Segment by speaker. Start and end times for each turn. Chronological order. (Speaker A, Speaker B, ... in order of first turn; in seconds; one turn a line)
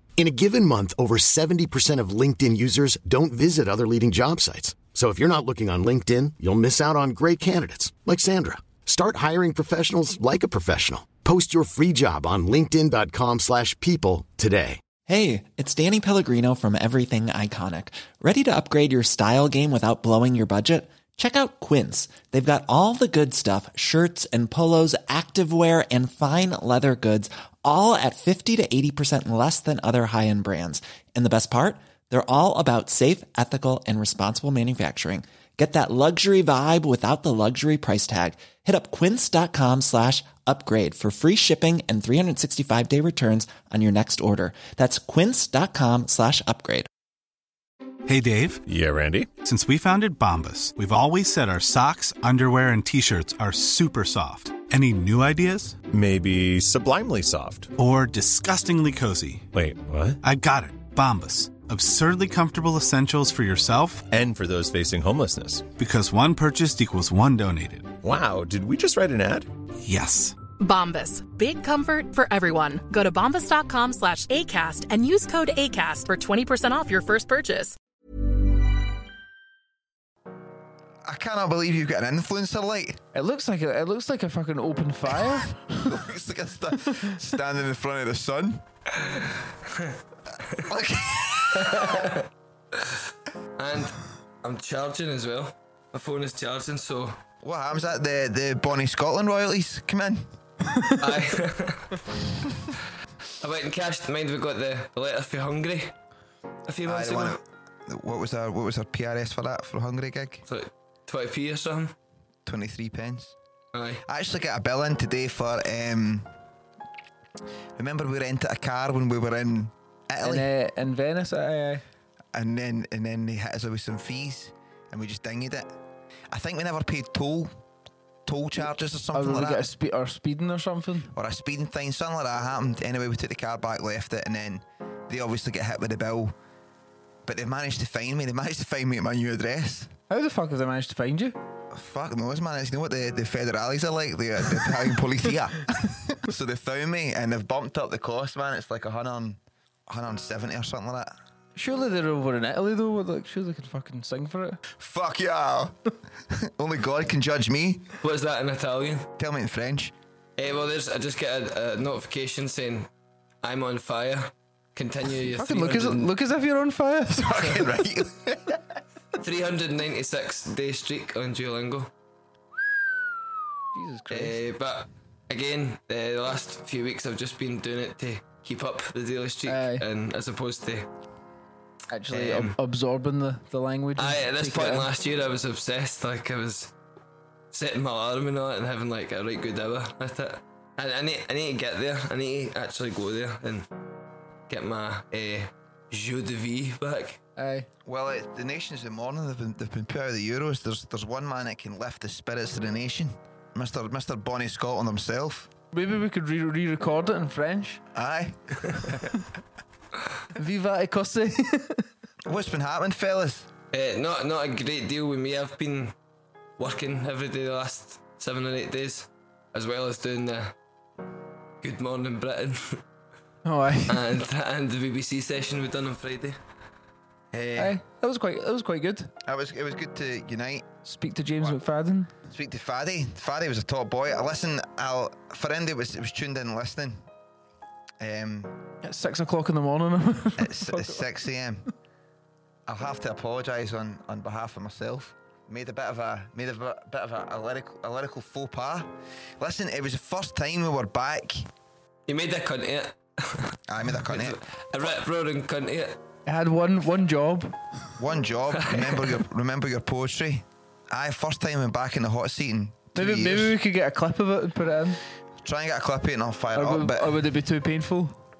Speaker A: 0.2-14.8
Speaker B: 15.1-46.9
Speaker C: 48.1-48.6
Speaker D: 48.7-49.3
Speaker C: 49.3-55.8
Speaker D: 55.9-57.7
Speaker C: 57.8-59.5
Speaker D: 59.5-60.2
Speaker C: 60.2-64.1
Speaker D: 64.1-65.7
Speaker C: 65.7-68.0
Speaker D: 68.0-69.5
Speaker C: 69.8-70.4
Speaker E: 70.6-77.8
Speaker F: 81.0-83.0
Speaker G: 83.1-85.6
Speaker F: 85.2-88.6
Speaker H: 89.1-90.0
Speaker F: 90.6-92.1
Speaker H: 91.6-92.2
Speaker H: 93.6-97.2
Speaker F: 97.4-100.3
Speaker H: 101.0-102.0
Speaker H: 103.4-105.9
Speaker H: 106.7-107.4
Speaker F: 106.8-110.4
Speaker H: 110.5-112.0
Speaker F: 112.5-113.4
Speaker H: 113.7-114.0
Speaker F: 114.0-116.3
Speaker F: 117.8-120.5
Speaker G: 120.2-121.8
Speaker F: 122.3-125.7
Speaker F: 126.3-127.5
Speaker F: 128.2-129.7
Speaker G: 129.1-131.1
Speaker F: 131.1-136.3
Speaker F: 137.2-139.9
Speaker G: 140.1-141.3
Speaker F: 141.7-151.2
Speaker G: 151.5-154.6
Speaker F: 154.7-155.8
Speaker F: 156.3-157.9
Speaker H: 158.0-159.1
Speaker F: 159.2-159.9
Speaker H: 160.4-162.9
Speaker H: 163.4-166.1
Speaker G: 165.3-167.5
Speaker F: 167.2-168.6
Speaker H: 169.2-171.9
Speaker G: 173.7-174.4
Speaker H: 174.1-180.9
Speaker G: 179.4-179.8
Speaker G: 181.9-184.9
Speaker H: 182.1-182.5
Speaker H: 184.0-186.7
Speaker H: 187.5-193.7
Speaker H: 194.5-197.2
Speaker G: 197.4-197.7
Speaker F: 197.8-205.5
Speaker G: 205.7-207.8
Speaker F: 207.9-209.0
Speaker G: 210.3-211.8
Speaker F: 212.2-213.5
Speaker H: 213.7-215.9
Speaker H: 216.6-220.5
Speaker H: 221.6-222.8
Speaker G: 223.4-224.0
Speaker H: 223.9-226.4
Speaker F: 227.3-227.8
Speaker G: 227.6-229.1
Speaker F: 229.2-230.7
Speaker G: 230.8-232.1
Speaker F: 232.3-237.1
Speaker F: 238.0-238.5
Speaker G: 238.8-241.1
Speaker F: 240.4-241.7
Speaker F: 242.7-251.5
Speaker H: 252.1-256.0
Speaker F: 253.7-254.4
Speaker G: 256.2-257.6
Speaker F: 258.0-263.6
Speaker H: 258.6-259.1
Speaker G: 262.9-265.0
Speaker F: 265.4-267.2
Speaker G: 266.6-268.2